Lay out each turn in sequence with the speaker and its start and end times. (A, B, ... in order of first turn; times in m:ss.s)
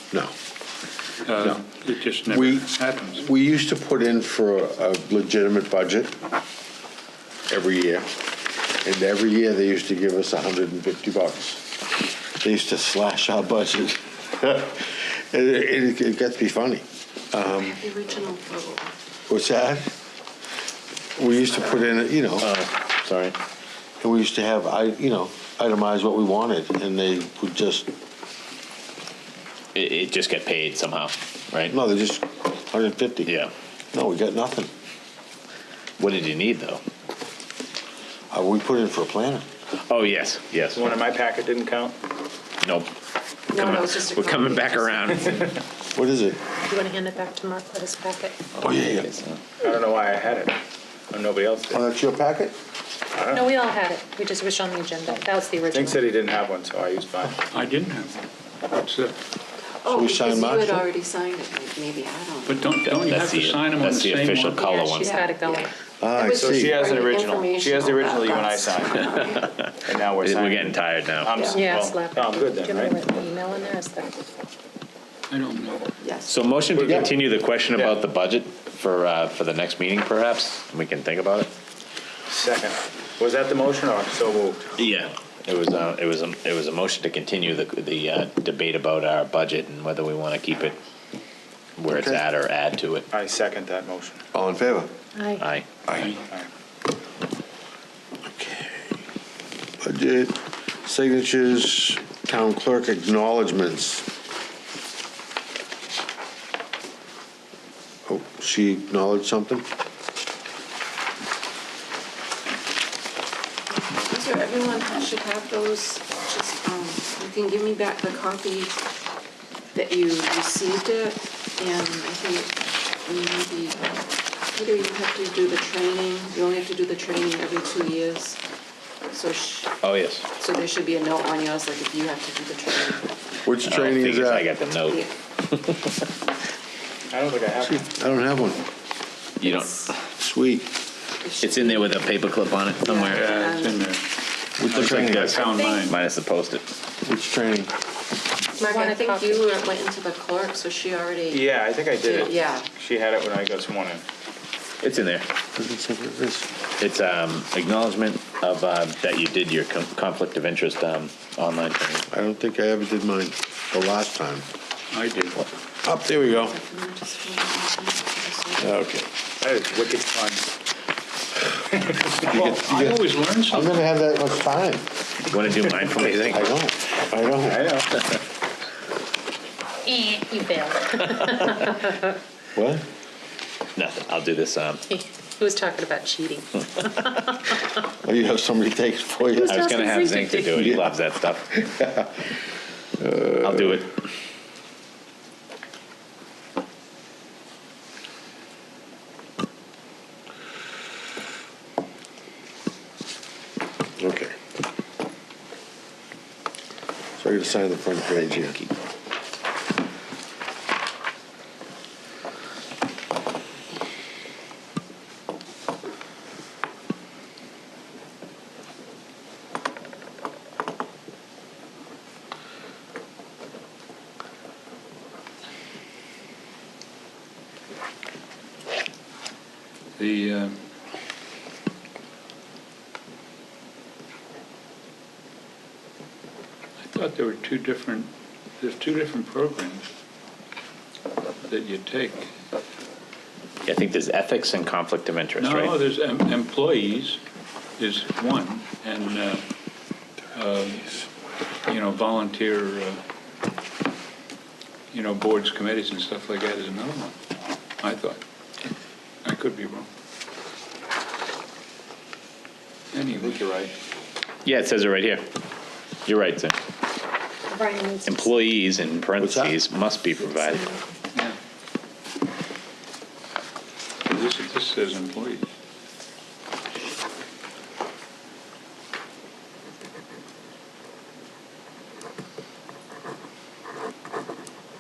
0:01.3-0:03.2 A
0:01.4-0:01.6 B
0:02.3-0:06.1 B
0:07.5-0:08.1 B
0:08.8-0:11.7 B
0:12.4-0:17.8 B
0:17.5-0:18.9 C
0:19.3-0:19.9 B
0:21.2-0:22.5 B
0:22.4-0:23.4 D
0:24.0-0:27.9 B
0:29.7-0:31.7 D
0:31.7-0:33.3 B
0:33.2-0:33.5 D
0:33.9-0:34.7 B
0:36.0-0:36.8 D
0:38.3-0:39.4 B
0:39.9-0:40.8 D
0:40.7-0:42.0 E
0:42.6-0:42.9 D
0:43.5-0:45.5 C
0:43.5-0:45.6 D
0:45.9-0:46.4 B
0:46.6-0:48.4 F
0:48.6-0:49.1 B
0:48.6-0:49.4 D
0:49.6-0:50.6 E
0:51.1-0:51.8 E
0:51.7-0:52.6 B
0:53.1-0:53.6 E
0:53.3-0:56.0 F
0:55.7-0:57.4 E
0:57.4-0:59.2 A
0:59.8-1:02.7 C
0:59.9-1:00.8 B
1:02.5-1:04.7 A
1:02.9-1:05.1 D
1:04.5-1:05.7 F
1:05.0-1:09.5 C
1:06.0-1:06.8 B
1:06.4-1:09.2 E
1:09.3-1:11.4 D
1:09.8-1:13.0 E
1:11.3-1:11.6 C
1:11.5-1:14.1 F
1:15.3-1:15.9 A
1:16.0-1:16.4 C
1:16.3-1:21.5 D
1:16.7-1:17.2 E
1:17.7-1:18.0 E
1:22.3-1:24.6 E
1:24.8-1:30.8 D
1:31.8-1:33.1 D
1:31.9-1:32.2 B
1:33.1-1:34.2 E
1:34.3-1:34.9 B
1:35.2-1:35.4 F
1:35.4-1:35.7 D
1:35.9-1:36.1 B
1:35.9-1:36.2 A
1:36.2-1:36.5 E
1:38.3-1:39.0 B
1:39.8-1:44.0 B
1:48.1-1:49.6 B
1:53.7-1:58.8 C
1:59.7-2:08.4 C
2:09.1-2:09.8 C
2:09.8-2:10.3 D
2:10.4-2:13.2 C
2:13.4-2:14.5 B
2:13.6-2:16.0 D
2:17.1-2:17.9 E
2:17.6-2:18.6 B
2:19.4-2:20.0 D
2:19.4-2:19.9 C
2:20.1-2:20.7 B
2:21.2-2:22.1 C
2:21.4-2:23.3 D
2:22.8-2:23.8 C
2:23.0-2:24.1 A
2:24.6-2:25.4 B
2:24.6-2:26.0 A
2:24.6-2:26.6 D
2:27.0-2:27.7 B
2:28.6-2:29.6 F
2:28.6-2:32.7 C
2:31.3-2:34.0 E
2:34.8-2:35.3 D
2:35.6-2:36.5 B
2:36.8-2:42.1 D
2:42.1-2:44.5 B
2:44.9-2:45.4 A
2:45.8-2:46.6 B
2:46.4-2:48.8 C
2:48.6-2:49.1 B
2:49.4-2:50.4 E
2:51.7-2:52.2 E
2:52.2-2:54.9 B
2:52.3-2:53.9 A
2:55.3-2:56.4 D
2:56.2-2:57.7 B
2:57.4-2:58.1 E
2:59.8-3:02.1 F
3:02.6-3:02.8 B
3:03.8-3:04.8 D
3:04.9-3:07.7 F
3:08.0-3:09.8 B
3:09.4-3:10.6 F
3:09.4-3:11.6 D
3:10.6-3:11.0 B
3:11.6-3:12.2 B
3:13.0-3:13.8 B
3:13.4-3:13.9 D
3:24.0-3:24.3 B
3:27.2-3:28.6 B
3:28.4-3:28.7 D
3:50.0-3:50.6 A
3:56.8-3:59.9 A
4:01.4-4:02.3 A
4:03.6-4:05.8 D
4:05.4-4:07.2 A
4:07.8-4:09.5 A
4:10.3-4:11.0 A
4:11.7-4:13.0 A
4:14.9-4:17.2 A
4:17.8-4:18.7 A
4:19.2-4:19.9 A
4:22.9-4:23.7 A
4:23.2-4:23.7 E
4:24.4-4:25.3 D
4:26.1-4:26.6 D
4:27.5-4:28.3 F
4:28.1-4:30.7 D
4:29.2-4:29.6 B
4:34.1-4:35.4 A